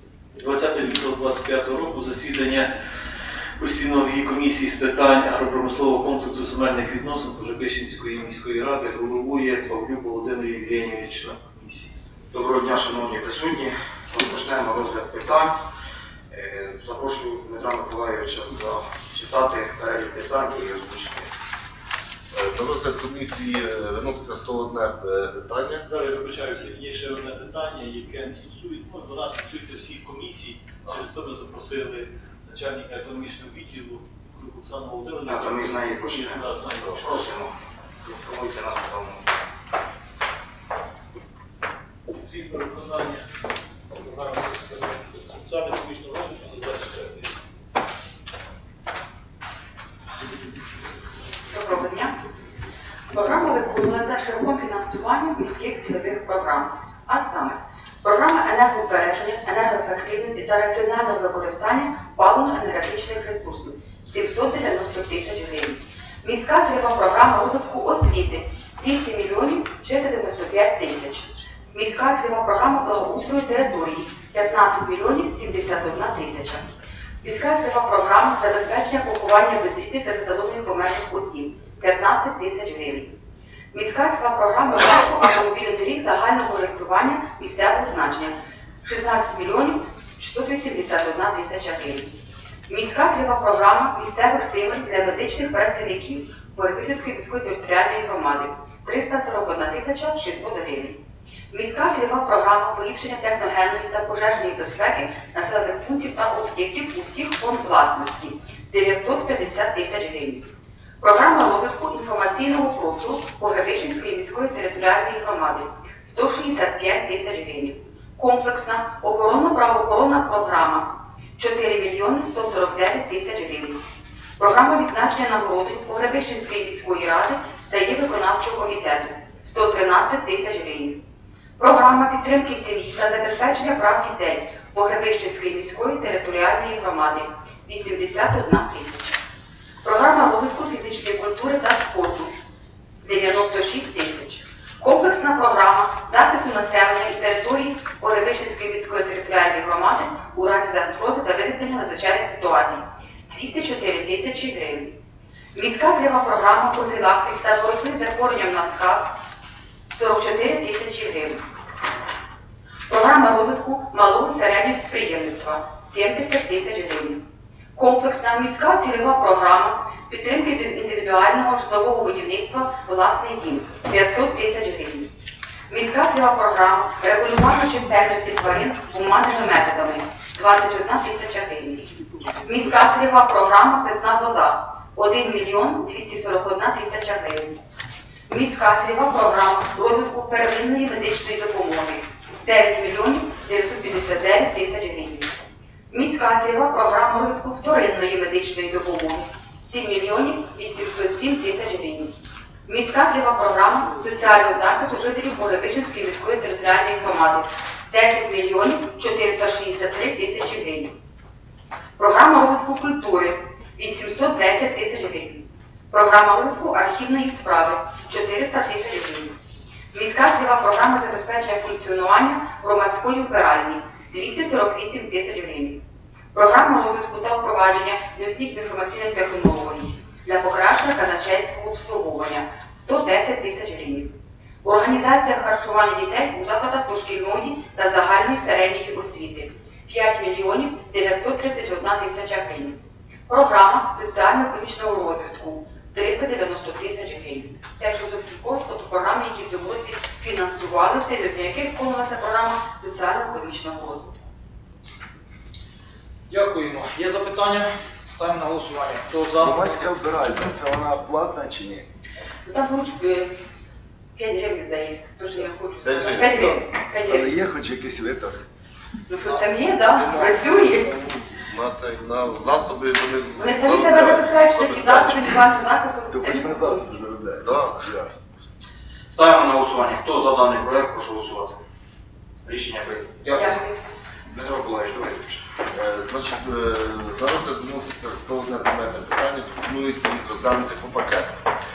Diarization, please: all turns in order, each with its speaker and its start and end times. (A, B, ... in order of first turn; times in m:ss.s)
0:00.4-0:02.7 A
0:03.6-0:11.9 A
0:12.3-0:15.5 B
0:16.3-0:21.4 B
0:22.3-0:25.8 C
0:25.8-0:37.0 A
0:35.2-0:39.3 B
0:42.1-0:43.2 A
0:44.0-0:47.3 A
0:51.5-0:52.2 D
0:53.1-1:16.6 D
1:17.2-1:23.1 D
1:23.7-1:32.1 D
1:32.7-1:41.0 D
1:41.5-1:50.5 D
1:51.0-2:03.8 D
2:04.4-2:11.0 D
2:11.6-2:19.2 D
2:19.8-2:22.3 D
2:23.0-2:35.0 D
2:35.5-2:39.2 D
2:39.9-2:41.4 D
2:42.9-2:47.2 D
2:47.8-2:55.1 D
2:55.7-3:01.9 D
3:02.4-3:07.6 D
3:08.3-3:15.3 D
3:15.9-3:22.1 D
3:22.7-3:31.0 D
3:32.0-3:39.4 D
3:39.9-3:45.8 D
3:46.3-3:54.1 D
3:54.6-4:14.2 D
4:16.3-4:19.9 B
4:19.4-4:21.9 E
4:22.4-4:23.4 D
4:24.2-4:27.3 D
4:25.8-4:26.4 C
4:27.0-4:28.4 E
4:29.1-4:30.9 D
4:30.0-4:31.3 E
4:31.4-4:35.4 C
4:33.4-4:36.7 D
4:36.1-4:38.3 E
4:37.4-4:37.8 C
4:39.1-4:41.6 B
4:42.4-4:43.6 B
4:43.3-4:43.8 D
4:44.3-4:45.4 B
4:45.7-4:51.4 C